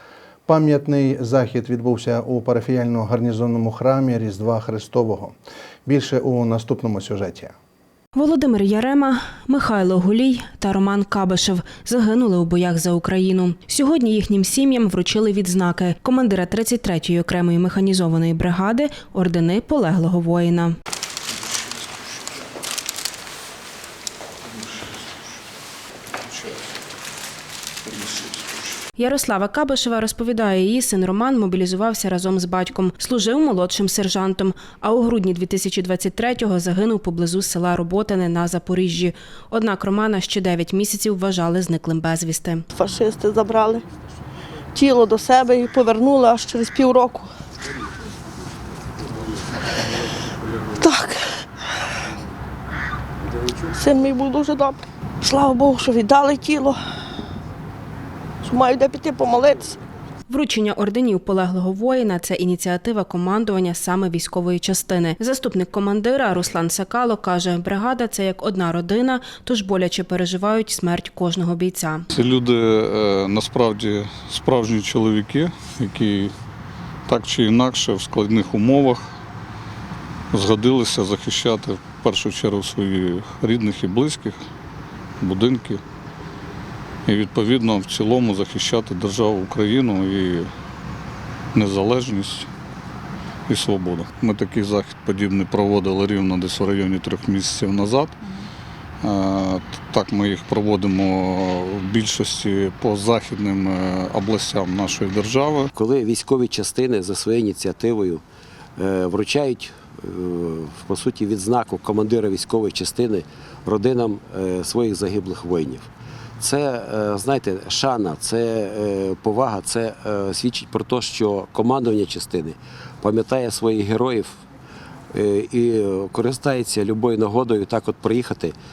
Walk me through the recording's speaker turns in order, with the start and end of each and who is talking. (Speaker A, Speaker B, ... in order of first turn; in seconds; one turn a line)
Speaker A: 0.5-5.3
Speaker A: 5.9-7.5
Speaker B: 8.2-20.8
Speaker B: 29.0-42.6
Speaker C: 42.7-43.9
Speaker C: 44.8-47.3
Speaker C: 50.7-51.5
Speaker C: 53.7-56.8
Speaker C: 58.4-59.8
Speaker B: 60.3-72.0
Speaker D: 72.1-76.3
Speaker D: 77.1-79.0
Speaker D: 80.3-84.4
Speaker D: 85.2-85.8
Speaker D: 87.1-90.5
Speaker D: 91.5-92.5
Speaker D: 93.5-98.2
Speaker D: 99.0-105.7
Speaker E: 105.8-108.2
Speaker E: 108.8-115.9
Speaker E: 116.4-124.4
Speaker E: 125.1-128.6